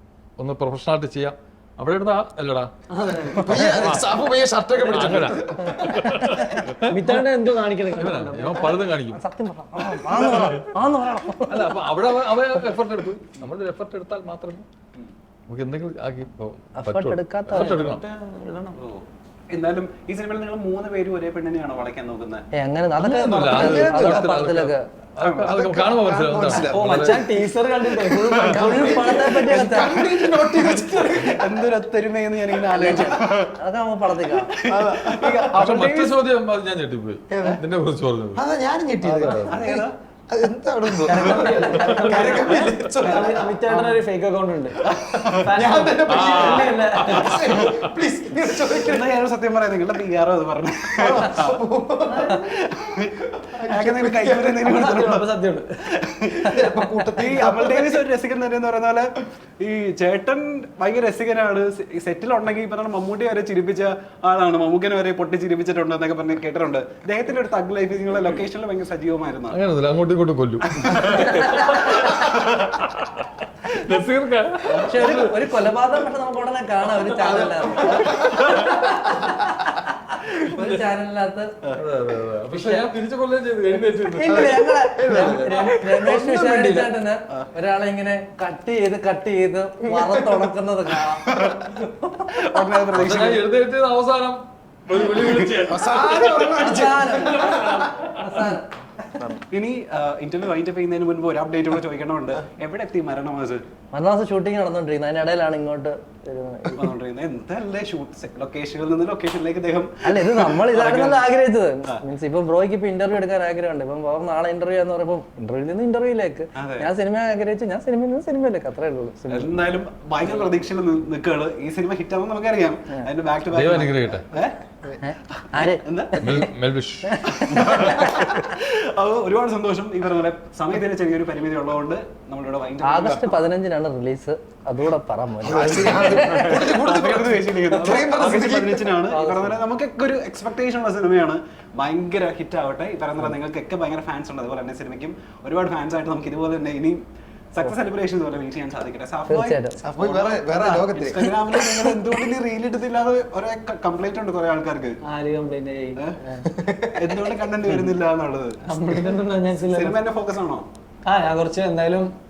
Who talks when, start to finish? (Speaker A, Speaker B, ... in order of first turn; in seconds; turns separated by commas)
Speaker A: 0.4-2.7, Speaker B: 2.9-3.9, Speaker C: 3.3-6.0, Speaker A: 3.8-4.1, Speaker A: 4.8-7.2, Speaker D: 5.6-6.7, Speaker B: 6.8-8.7, Speaker A: 7.9-9.2, Speaker D: 9.1-11.7, Speaker A: 11.5-14.7, Speaker A: 15.5-18.0, Speaker D: 16.8-17.9, Speaker B: 17.5-18.8, Speaker E: 18.8-22.4, Speaker D: 22.6-24.8, Speaker A: 23.0-27.2, Speaker C: 23.5-23.9, Speaker E: 25.2-25.5, Speaker C: 25.4-27.2, Speaker B: 26.6-29.0, Speaker C: 28.4-31.6, Speaker D: 28.5-30.0, Speaker E: 29.6-30.0, Speaker E: 31.1-33.5, Speaker D: 32.7-34.5, Speaker E: 34.3-36.1, Speaker C: 34.6-35.5, Speaker A: 35.5-38.4, Speaker C: 37.3-37.6, Speaker C: 38.4-43.5, Speaker A: 39.0-39.4, Speaker E: 39.0-39.9, Speaker B: 41.1-44.8, Speaker E: 41.2-41.9, Speaker E: 43.0-43.3, Speaker E: 44.8-45.4, Speaker C: 45.3-49.1, Speaker B: 45.4-47.5, Speaker A: 46.0-47.9, Speaker E: 48.7-51.6, Speaker C: 51.0-52.5, Speaker E: 52.3-55.3, Speaker C: 53.4-54.6, Speaker B: 54.6-55.6, Speaker E: 55.9-56.5, Speaker C: 56.4-58.0, Speaker E: 57.1-59.1, Speaker E: 59.6-69.6, Speaker A: 69.5-75.3, Speaker E: 70.8-72.7, Speaker E: 74.7-75.2, Speaker D: 74.8-81.6, Speaker C: 77.2-78.5, Speaker E: 78.0-78.9, Speaker A: 81.7-84.6, Speaker D: 82.5-82.9, Speaker D: 84.1-92.6, Speaker C: 84.3-86.1, Speaker B: 85.9-86.9, Speaker C: 89.8-90.5, Speaker E: 92.3-93.5, Speaker A: 92.9-98.6, Speaker E: 95.0-95.6, Speaker C: 95.6-97.8, Speaker D: 96.4-99.3, Speaker E: 99.5-103.6, Speaker D: 103.9-106.9, Speaker E: 106.7-111.3, Speaker D: 110.0-119.6, Speaker E: 116.5-116.9, Speaker E: 119.3-124.6, Speaker A: 123.5-124.2, Speaker D: 125.0-126.5, Speaker E: 125.3-126.4, Speaker A: 126.2-127.2, Speaker D: 127.0-128.3, Speaker E: 127.3-133.4, Speaker D: 132.8-136.6, Speaker C: 135.4-139.1, Speaker E: 135.6-147.0, Speaker B: 139.1-139.6, Speaker E: 147.5-155.0, Speaker D: 149.3-149.8, Speaker C: 149.8-151.6, Speaker B: 155.0-156.5, Speaker C: 156.5-157.3, Speaker E: 156.9-158.6, Speaker B: 158.7-160.0, Speaker E: 159.6-160.7, Speaker B: 161.1-162.1